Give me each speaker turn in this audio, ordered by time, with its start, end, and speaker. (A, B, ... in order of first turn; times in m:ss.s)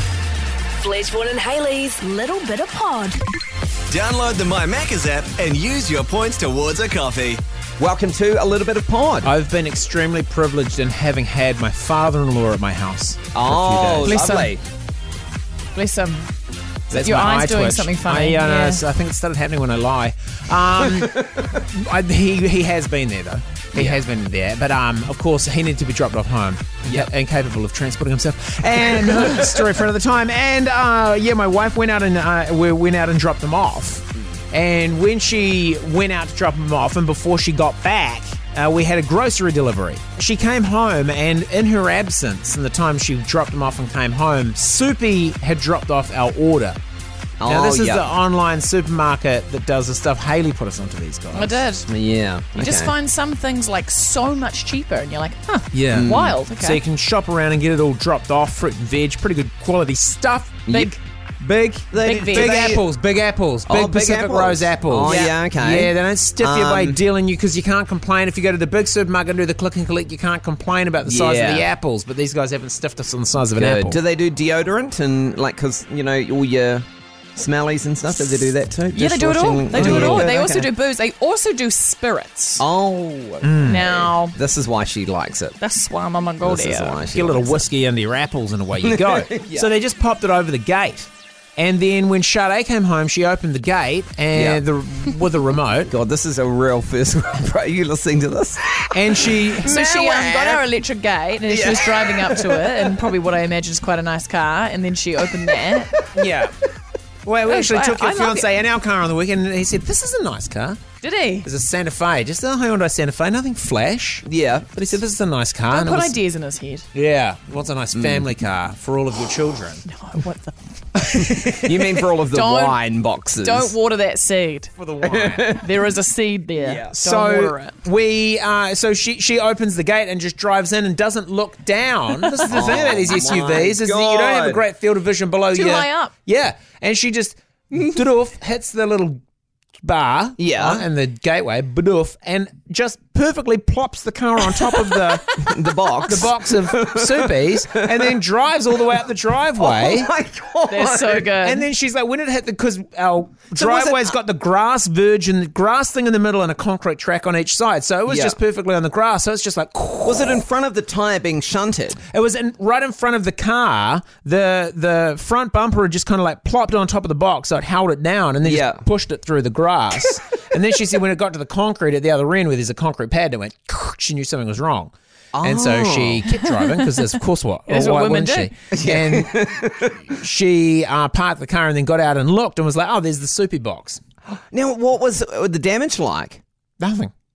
0:00.8-0:03.1 A
0:03.9-0:07.4 B
0:07.8-0:09.3 C
0:09.2-0:14.2 D
0:13.3-0:14.6 C
0:14.0-0:14.6 E
0:15.7-0:16.3 E
0:16.9-0:18.8 E
0:16.9-0:46.8 D
0:23.7-0:24.0 C
0:26.8-0:27.1 C
0:29.0-0:29.6 C
0:47.4-0:48.0 C
0:47.4-0:51.7 D
0:51.3-0:51.8 E
0:51.9-0:52.9 C
0:52.5-0:56.8 E
0:55.7-1:14.0 D
0:55.9-0:56.4 C
1:00.7-1:00.9 C
1:01.9-1:02.8 C
1:02.0-1:02.8 E
1:03.7-1:07.0 C
1:05.0-1:05.4 E
1:11.0-1:11.7 C
1:13.6-1:20.7 C
1:18.9-1:22.6 E
1:19.7-1:20.3 D
1:22.6-1:25.6 C
1:23.4-1:23.9 D
1:23.6-1:24.3 E
1:25.6-1:27.0 E
1:26.4-1:27.6 C
1:27.1-1:35.9 D
1:28.8-1:29.7 C
1:34.3-1:34.6 C
1:35.9-1:40.6 C
1:38.9-1:39.8 D
1:39.6-1:45.9 E
1:41.5-1:43.1 C
1:46.1-1:46.5 D
1:47.2-1:50.8 D
1:47.4-1:48.5 E
1:51.0-1:51.5 E
1:51.4-1:56.1 D
1:54.2-1:54.7 C
1:55.7-1:56.9 E
1:56.9-1:59.8 D
1:57.9-1:58.3 C
1:59.8-2:01.0 E
2:01.1-2:01.7 D
2:01.3-2:03.7 C
2:02.2-2:04.7 E
2:04.8-2:05.6 D
2:05.0-2:05.7 C
2:05.5-2:07.7 E
2:06.6-2:06.9 C
2:06.9-2:19.2 D
2:12.2-2:12.6 E
2:12.5-2:14.6 C
2:15.5-2:16.1 E
2:19.8-2:30.1 D
2:20.4-2:20.8 C
2:24.6-2:28.2 C
2:29.6-2:31.3 C
2:30.7-2:31.7 E
2:31.4-2:40.4 D
2:33.5-2:34.1 C
2:38.1-2:38.4 C
2:40.0-2:42.0 C
2:42.0-2:59.5 D
2:48.4-2:48.8 C
2:55.3-2:56.3 C
2:56.5-2:57.0 E
2:57.7-2:58.5 E
2:58.7-3:00.0 C
3:00.1-3:04.0 D
3:04.3-3:06.4 C
3:06.8-3:07.1 D